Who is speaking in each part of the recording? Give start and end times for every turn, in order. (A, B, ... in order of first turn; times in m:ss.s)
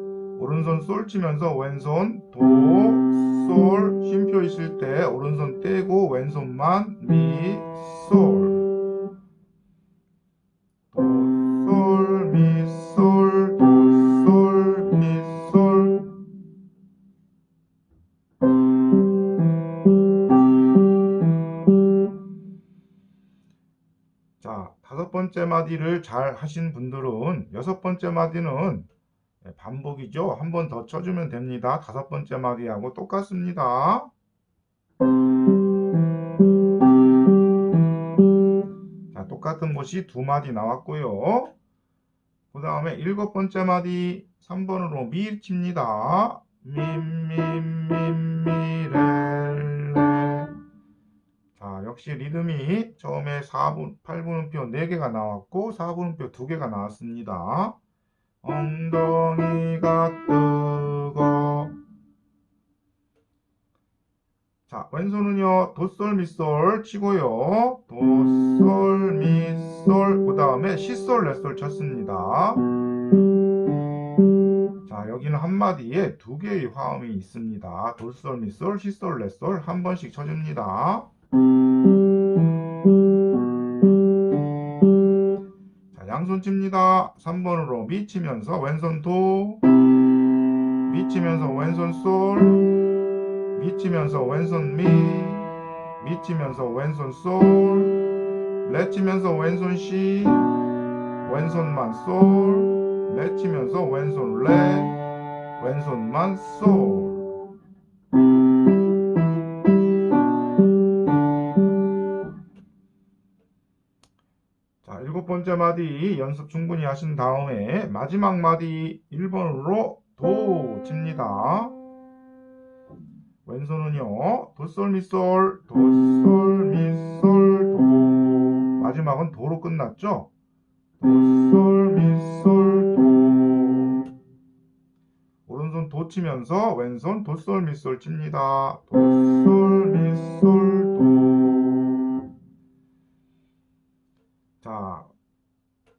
0:00.4-0:08.7 A
0:10.9-0:16.1 A
0:24.4-0:28.9 A
0:29.4-0:34.1 A
0:39.1-0:41.5 A
0:42.5-0:50.5 A
0:51.6-0:57.8 A
0:58.4-1:01.8 A
1:04.7-1:12.6 A
1:14.8-1:21.1 A
1:25.9-1:29.6 A
1:30.9-1:32.8 A
1:33.6-1:38.0 A
1:38.6-1:40.6 A
1:41.2-1:45.0 A
1:45.6-1:47.4 A
1:54.8-2:01.8 A
2:03.4-2:10.3 A
2:11.0-2:14.1 A
2:15.5-2:22.2 A
2:24.6-2:25.1 A